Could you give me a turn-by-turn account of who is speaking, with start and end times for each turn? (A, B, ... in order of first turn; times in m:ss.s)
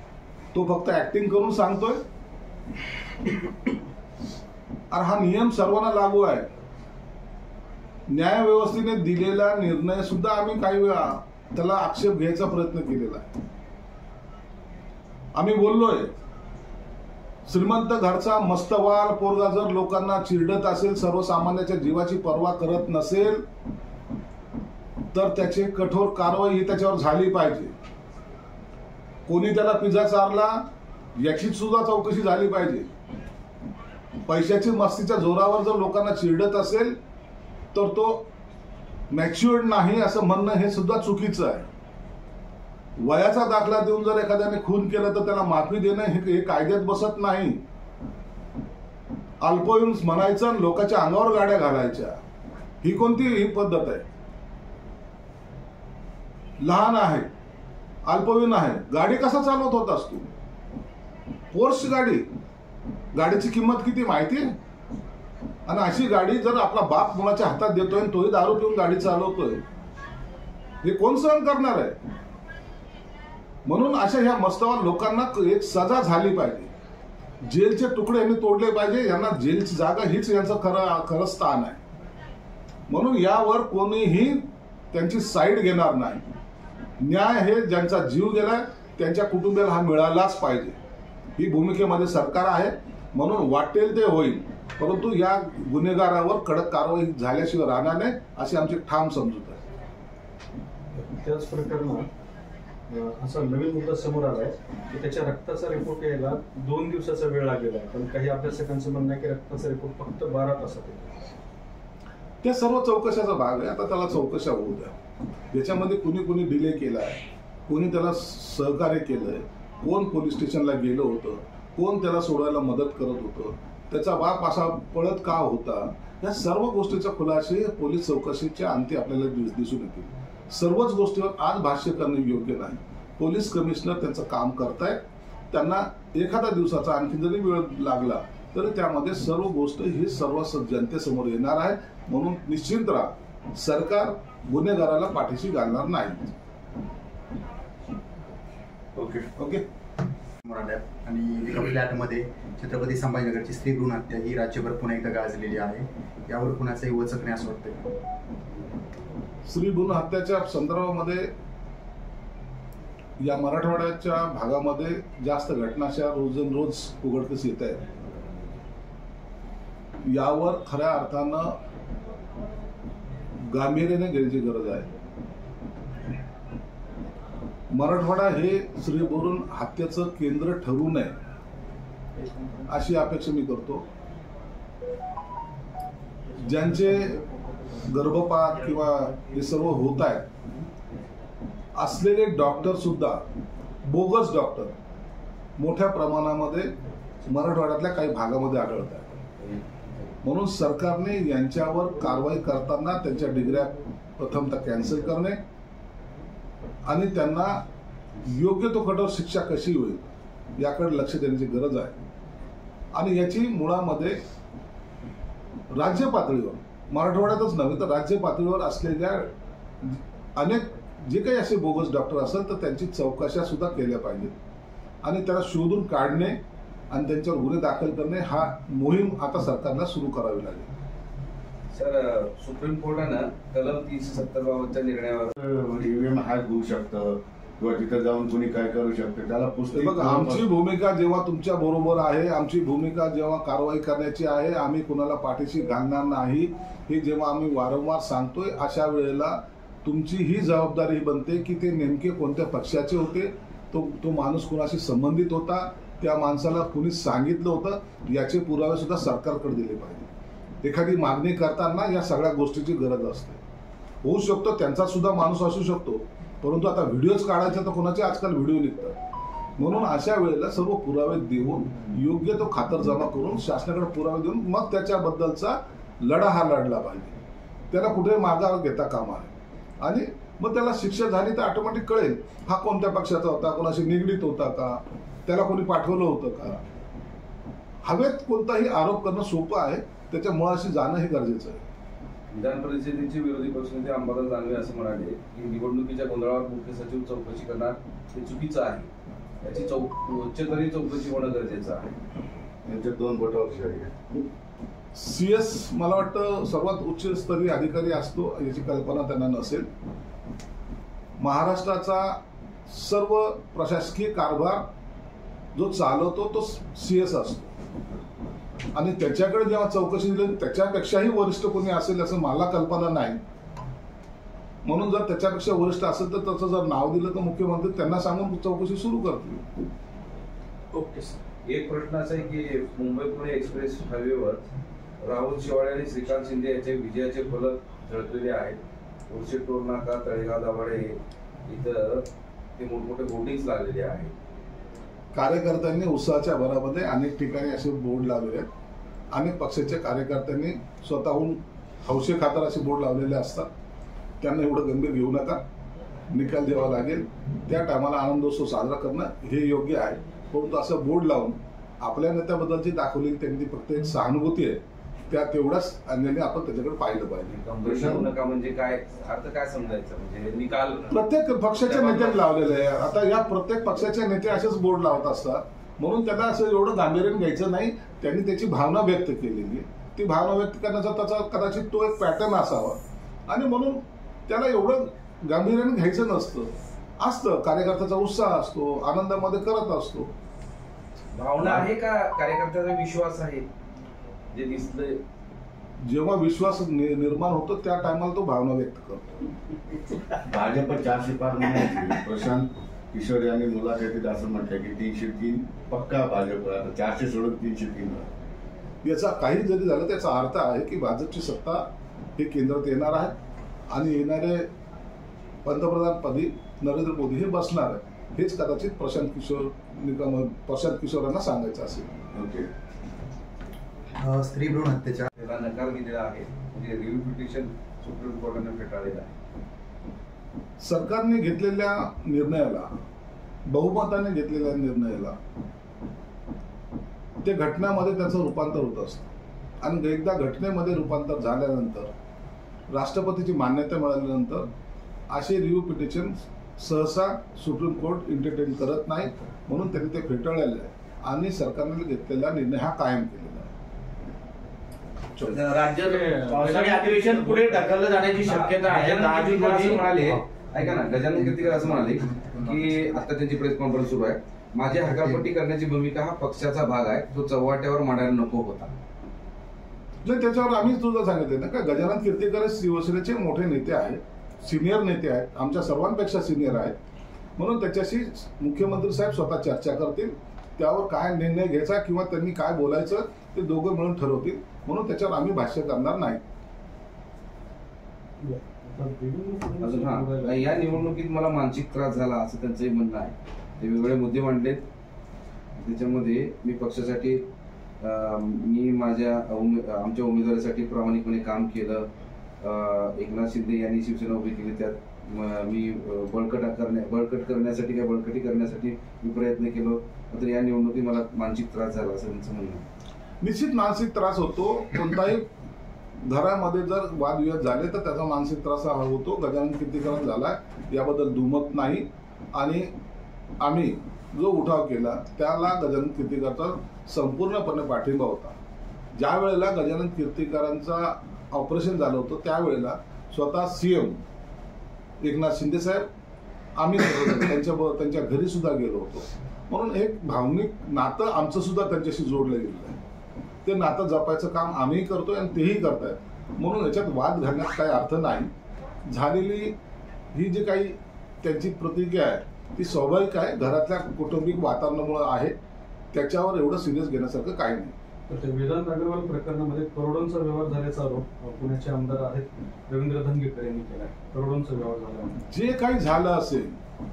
0:00.5-0:02.0 A
0:04.9-0:06.5 A
0:08.1-0:13.3 A
0:15.3-0:16.1 A
0:17.5-0:23.4 A
0:25.1-0:27.7 A
0:29.3-0:30.6 A
0:31.2-0:32.9 A
0:34.2-0:37.0 A
0:37.7-0:38.3 A
0:39.1-0:41.6 A
0:43.0-0:47.6 A
0:49.4-0:52.2 A
0:52.8-0:54.0 A
0:56.6-0:57.3 A
0:58.0-1:00.3 A
1:01.5-1:02.2 A
1:03.1-1:04.4 A
1:05.7-1:09.6 A
1:10.8-1:12.0 A
1:13.6-1:16.7 A
1:17.4-1:21.8 A
1:22.9-1:26.2 A
1:27.0-1:30.8 A
1:31.4-1:39.6 A
1:41.0-1:42.1 B
1:42.9-1:51.2 B
1:52.4-2:26.3 A
2:29.4-2:29.6 A
2:30.4-2:37.9 C
2:39.5-2:41.3 A
2:43.2-2:47.9 A
2:50.0-2:51.6 A
2:53.4-2:54.9 A
2:57.7-3:01.1 A
3:02.6-3:03.8 A
3:06.4-3:07.2 A
3:07.7-3:10.3 A
3:11.7-3:13.2 A
3:13.8-3:14.7 A
3:15.6-3:16.7 A
3:17.2-3:19.2 A
3:19.5-3:19.8 D
3:20.2-3:25.4 A
3:26.8-3:27.6 A
3:28.2-3:32.0 A
3:32.9-3:34.2 A
3:35.7-3:44.3 A
3:45.0-3:46.4 A
3:46.9-3:50.7 A
3:51.7-3:55.3 D
3:55.4-4:00.5 E
3:59.7-4:20.1 A
4:20.6-4:23.4 A
4:24.0-4:29.0 A
4:29.6-4:37.2 A
4:37.7-4:46.6 A
4:47.8-4:51.6 A
4:52.3-4:58.9 D
4:59.4-5:01.9 D
5:02.6-5:04.2 E
5:04.9-5:09.7 A
5:11.2-5:14.7 A
5:15.5-5:17.5 A
5:18.7-5:23.2 A
5:24.6-5:29.5 A
5:30.7-5:31.2 B
5:31.4-5:34.4 D
5:35.0-5:44.1 D
5:45.1-5:48.5 A
5:49.1-5:53.5 A
5:54.2-5:55.4 A
5:56.1-6:07.3 A
6:07.3-6:11.0 D
6:07.6-6:07.9 E
6:10.9-6:30.1 A
6:11.5-6:12.2 D
6:31.1-6:33.5 D
6:31.4-6:31.7 E
6:34.3-6:35.0 D
6:35.8-6:39.2 A
6:40.2-6:48.1 E
6:48.8-6:51.6 A
6:52.2-6:53.1 A
6:53.7-6:54.5 A
6:55.4-7:02.1 A
7:02.1-7:02.5 E
7:04.0-7:05.1 C
7:05.2-7:09.1 D
7:10.6-7:12.7 A
7:13.4-7:15.2 A
7:17.2-7:19.1 A
7:19.6-7:21.9 A
7:22.7-7:24.5 A
7:25.1-7:33.5 A
7:35.2-7:39.9 F
7:35.4-7:37.7 B
7:38.3-7:48.7 D
7:50.0-7:56.8 A
7:57.4-8:06.2 A
8:08.2-8:10.8 B
8:09.6-8:14.6 D
8:15.6-8:17.2 D
8:17.8-8:21.9 D
8:22.4-8:32.6 D
8:33.2-8:35.3 A
8:36.0-8:42.7 A
8:43.4-8:48.4 A
8:48.9-8:54.0 A
8:55.0-8:55.8 A
8:56.6-9:02.8 A
9:03.4-9:08.3 A
9:08.8-9:09.5 A
9:10.1-9:15.3 A
9:15.9-9:17.7 A
9:18.1-9:25.2 B
9:25.2-9:26.6 A